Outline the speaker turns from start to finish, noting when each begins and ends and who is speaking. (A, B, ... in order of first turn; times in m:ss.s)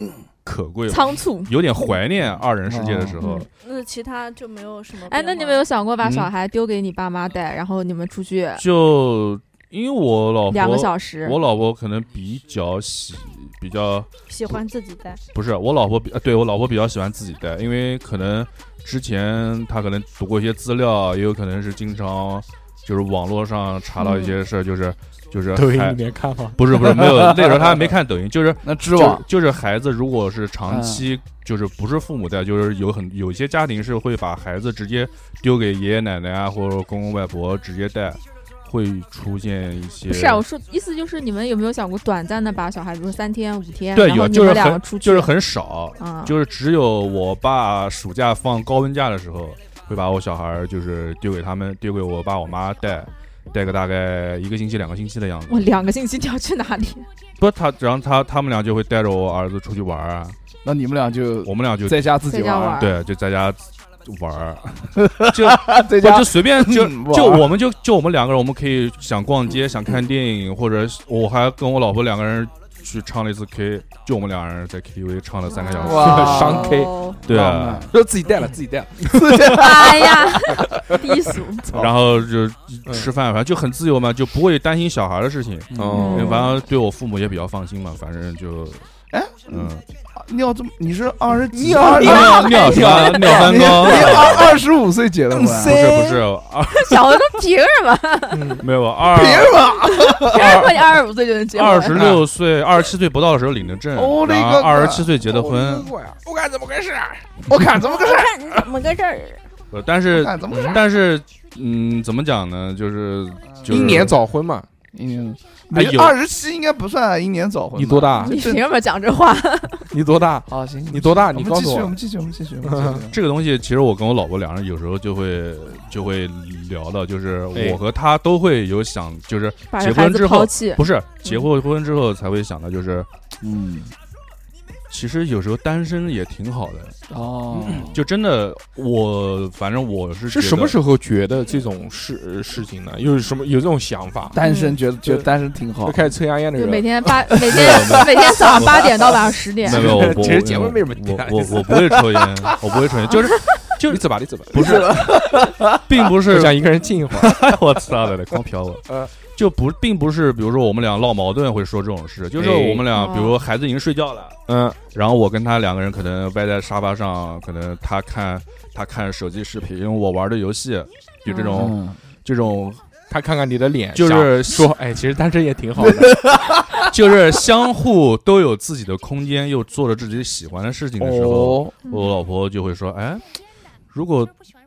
0:00.4-0:03.5 A
0:00.9-0:01.5 B
0:02.6-0:03.2 C
0:03.2-0:03.4 B
0:03.6-0:05.6 D
0:05.1-0:08.6 B
0:06.0-0:06.3 A
0:08.6-0:14.5 A
0:10.5-0:11.4 B
0:14.3-0:15.2 D
0:15.3-0:26.0 A
0:24.0-0:24.3 B
0:25.5-0:27.1 E
0:26.6-0:40.4 A
0:26.9-0:27.6 C
0:28.6-0:29.2 C
0:30.7-0:31.0 C
0:40.1-0:45.3 B
0:43.9-0:55.7 A
0:46.0-0:46.3 B
0:55.5-0:57.0 B
0:57.4-1:00.4 A
1:00.6-1:02.8 C
1:01.4-1:02.1 A
1:02.3-1:02.9 B
1:02.7-1:16.5 A
1:05.0-1:07.5 C
1:15.5-1:16.9 B
1:15.8-1:17.9 C
1:15.9-1:20.9 E
1:15.9-1:17.2 D
1:17.2-1:17.9 A
1:19.1-1:21.0 C
1:19.1-1:19.4 A
1:19.4-1:21.7 B
1:21.7-1:28.8 A
1:25.7-1:26.2 C
1:25.7-1:26.4 E
1:25.9-1:26.5 B
1:29.1-1:35.9 C
1:29.5-1:29.8 A
1:31.5-1:34.4 E
1:31.8-1:34.6 A
1:35.3-1:35.8 E
1:35.4-1:37.3 A
1:36.7-1:38.6 B
1:38.3-1:38.6 E
1:38.6-1:39.7 A
1:39.0-1:40.7 C
1:40.0-1:42.0 B
1:41.5-1:45.9 A
1:41.9-1:42.3 E
1:43.9-1:45.1 C
1:45.2-1:48.6 E
1:47.5-1:48.3 C
1:47.8-1:49.4 D
1:49.7-1:54.2 A
1:50.1-1:50.8 C
1:50.5-1:50.8 E
1:53.5-1:54.1 C
1:53.7-1:54.7 E
1:54.9-1:58.6 C
1:55.7-1:56.2 A
1:57.7-1:58.4 E
1:58.2-1:59.9 B
1:59.9-2:02.0 E
2:00.5-2:03.1 C
2:02.6-2:03.1 E
2:03.1-2:13.1 A
2:07.5-2:07.8 E
2:09.7-2:11.4 B
2:13.4-2:13.9 C
2:14.9-2:17.0 A
2:17.1-2:18.0 C
2:17.6-2:20.8 A
2:20.3-2:24.4 E
2:24.3-2:26.1 C
2:24.4-2:24.8 B
2:25.0-2:25.3 E
2:25.8-2:28.6 E
2:26.6-2:30.0 B
2:27.4-2:28.9 A
2:29.6-2:35.2 A
2:29.6-2:32.6 E
2:33.8-2:35.5 E
2:34.5-2:35.8 C
2:35.8-2:44.4 A
2:36.2-2:37.5 E
2:42.4-2:42.8 E
2:42.9-2:43.4 B
2:44.5-2:44.8 E
2:44.9-2:52.8 A
2:51.2-2:51.7 B
2:51.5-2:52.0 C
2:53.1-2:56.3 E
2:53.9-2:54.7 A
2:55.8-2:56.8 C
2:56.8-3:03.3 A
3:01.0-3:01.8 C
3:03.9-3:04.3 A